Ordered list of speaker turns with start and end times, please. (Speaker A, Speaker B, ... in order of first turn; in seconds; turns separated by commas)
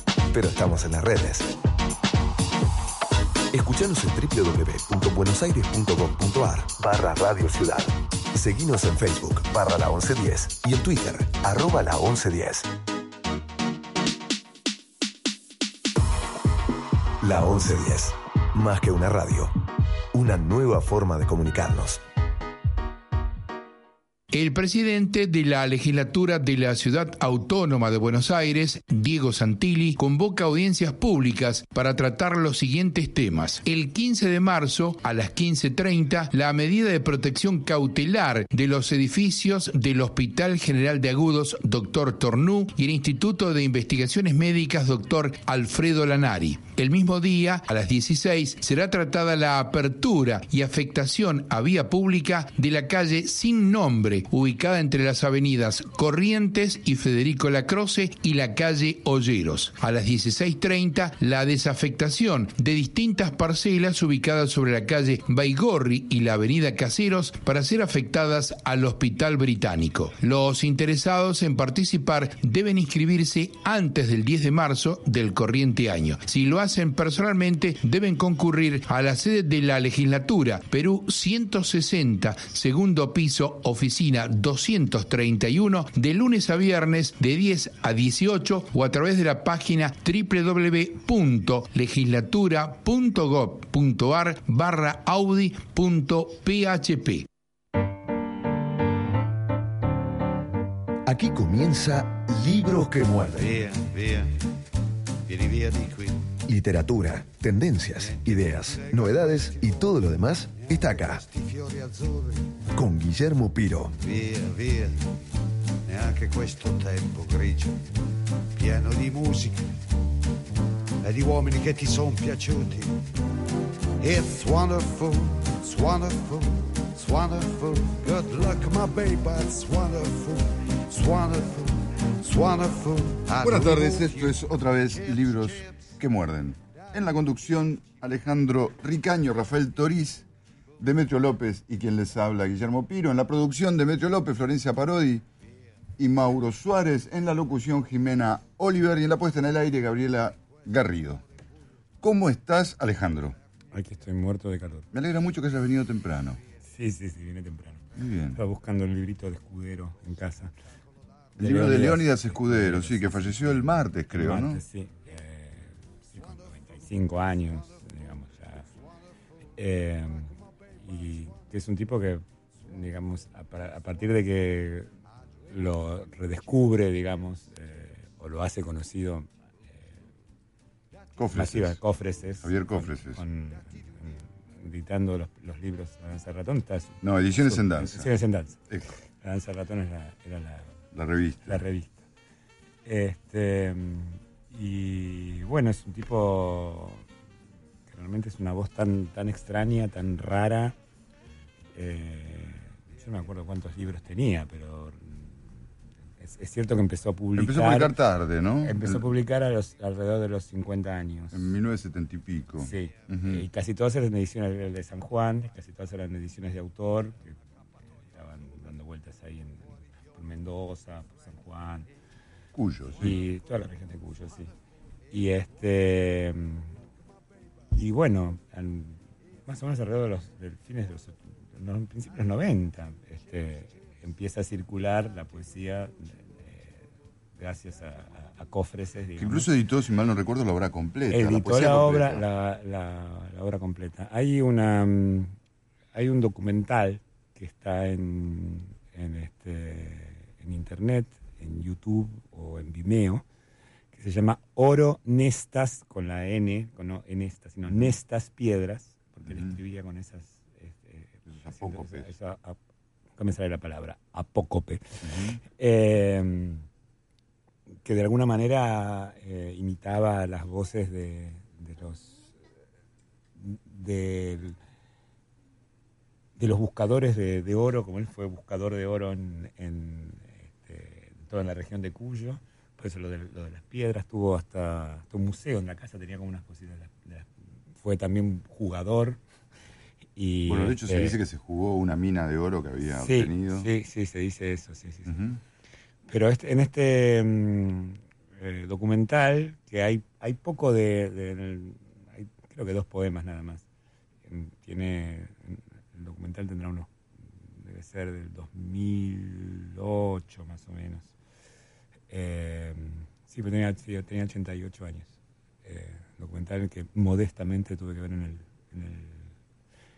Speaker A: 0.3-1.5, Speaker A: 3.5-12.7, Speaker A: 17.2-19.5, Speaker A: 20.1-22.0, Speaker B: 24.3-97.3, Speaker A: 101.0-103.6, Speaker C: 103.3-104.4, Speaker C: 105.2-106.3, Speaker A: 106.5-111.2, Speaker C: 107.8-112.6, Speaker A: 112.7-113.9, Speaker C: 114.0-115.1, Speaker C: 115.9-117.8, Speaker C: 118.5-119.7, Speaker C: 121.0-123.0, Speaker C: 124.0-135.8, Speaker D: 133.4-140.3, Speaker D: 140.8-145.2, Speaker D: 146.0-151.2, Speaker D: 152.0-153.4, Speaker E: 153.7-154.9, Speaker D: 154.9-156.4, Speaker E: 156.6-157.8, Speaker D: 157.9-158.4, Speaker E: 158.3-160.5, Speaker D: 161.3-164.6, Speaker E: 161.4-168.7, Speaker E: 169.6-174.9, Speaker E: 175.5-179.9, Speaker D: 181.2-181.8, Speaker E: 181.3-188.6, Speaker D: 182.4-183.2, Speaker D: 187.0-188.1, Speaker E: 189.2-190.7, Speaker D: 190.9-191.6, Speaker E: 191.5-192.0, Speaker E: 192.8-197.0, Speaker E: 197.9-200.8, Speaker E: 201.7-205.4, Speaker E: 206.2-207.9, Speaker D: 207.3-209.1, Speaker E: 208.6-211.5, Speaker D: 211.3-213.4, Speaker E: 212.6-221.9, Speaker D: 222.5-223.2, Speaker E: 223.0-224.5, Speaker E: 225.1-226.7, Speaker E: 227.7-236.8, Speaker E: 237.4-239.5, Speaker D: 239.2-242.2, Speaker E: 241.1-245.3, Speaker E: 245.9-253.2, Speaker E: 253.9-262.6, Speaker D: 259.3-259.6, Speaker D: 261.2-262.1, Speaker E: 263.2-264.8, Speaker D: 265.0-265.4, Speaker E: 265.5-266.6, Speaker E: 267.8-272.4, Speaker E: 273.4-274.6, Speaker E: 276.4-287.3, Speaker E: 287.8-289.2, Speaker E: 290.1-291.2, Speaker D: 290.5-293.7, Speaker E: 293.0-295.2, Speaker D: 295.1-295.4, Speaker E: 296.1-303.6, Speaker E: 304.2-306.9, Speaker E: 307.5-311.1, Speaker E: 312.1-319.3